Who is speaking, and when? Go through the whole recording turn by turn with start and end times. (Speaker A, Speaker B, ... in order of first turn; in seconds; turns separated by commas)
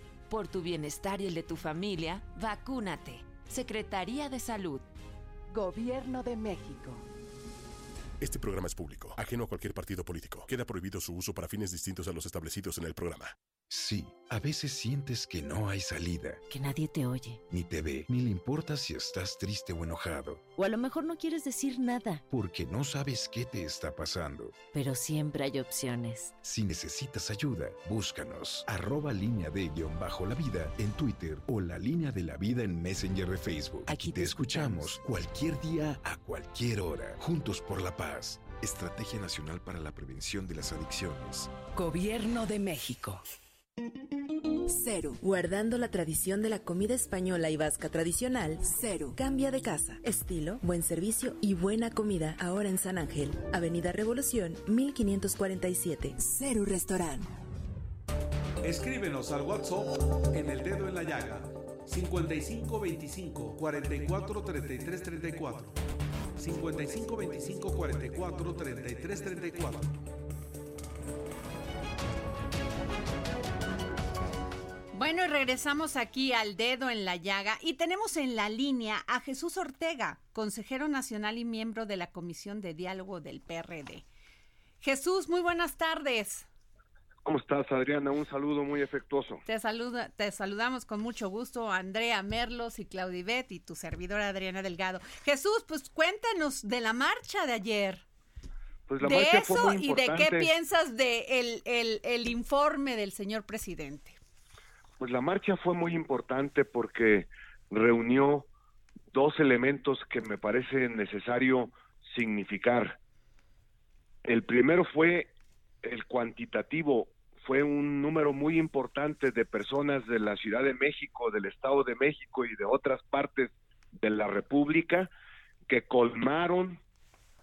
Speaker A: 0.3-4.9, Speaker B: 8.2-13.3, Speaker C: 13.7-16.4, Speaker D: 16.5-17.4, Speaker C: 17.5-20.4, Speaker D: 20.6-22.2, Speaker C: 22.3-24.6, Speaker D: 24.7-26.3, Speaker C: 26.4-41.5, Speaker D: 33.9-34.6, Speaker E: 44.7-57.3, Speaker F: 58.6-65.8, Speaker F: 66.4-70.0, Speaker G: 74.9-84.0, Speaker G: 84.8-86.5, Speaker H: 87.2-89.4, Speaker G: 89.5-98.0, Speaker H: 98.9-100.5, Speaker G: 99.0-104.2, Speaker H: 105.0-108.5, Speaker H: 109.1-113.0, Speaker H: 114.2-115.3, Speaker H: 115.8-125.1, Speaker H: 125.7-126.8